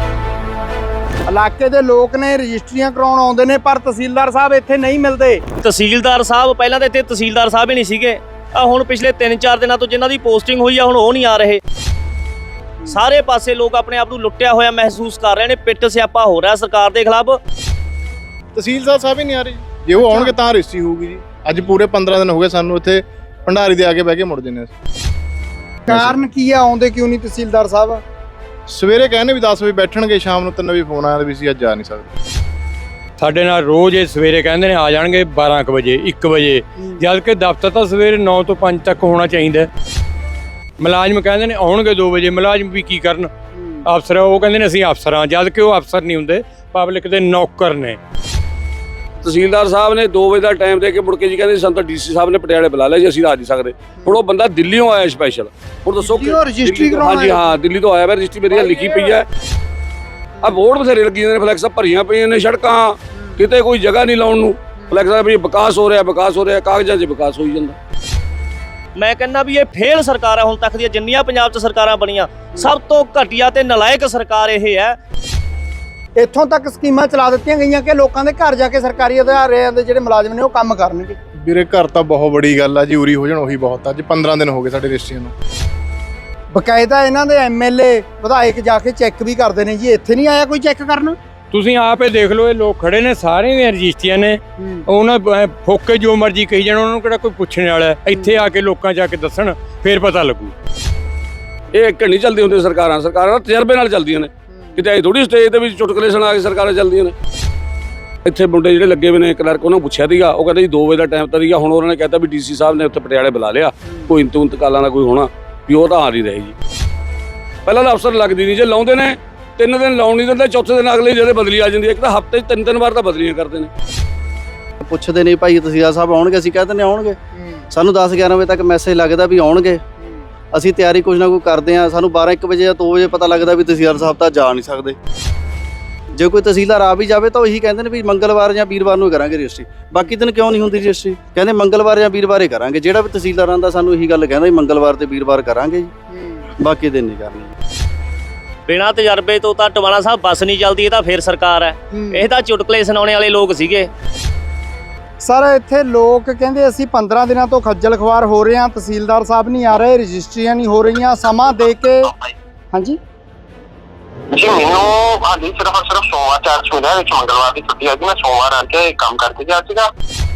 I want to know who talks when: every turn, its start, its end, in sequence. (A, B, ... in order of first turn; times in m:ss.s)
0:01.3-0:05.4 A
0:05.6-0:11.6 B
0:12.9-0:17.4 B
0:18.5-0:24.7 C
0:20.0-0:20.3 A
0:25.9-0:28.0 A
0:25.9-0:26.2 C
0:28.7-0:32.1 C
0:33.2-0:39.7 D
0:40.8-0:43.3 D
0:43.6-0:43.8 A
0:43.8-0:48.0 D
0:49.2-0:59.3 E
0:56.0-0:57.5 A
0:58.5-0:59.2 A
1:00.4-1:07.8 E
1:09.0-1:15.0 B
1:16.2-1:21.2 A
1:21.4-1:25.3 C
1:26.5-1:31.2 A
1:31.5-1:40.5 D
1:34.6-1:34.8 A
1:38.1-1:38.4 A
1:41.7-1:47.2 E
1:48.2-1:56.5 E
1:57.7-2:03.7 E
2:04.8-2:07.2 F
2:07.4-2:07.6 A
2:07.7-2:09.8 F
2:10.5-2:15.0 F
2:16.1-2:25.9 F
2:26.1-2:26.4 A
2:26.6-2:27.5 F
2:28.7-2:33.9 B
2:31.9-2:32.2 A
2:35.2-2:42.1 A
2:42.7-2:43.0 A
2:44.3-2:49.9 G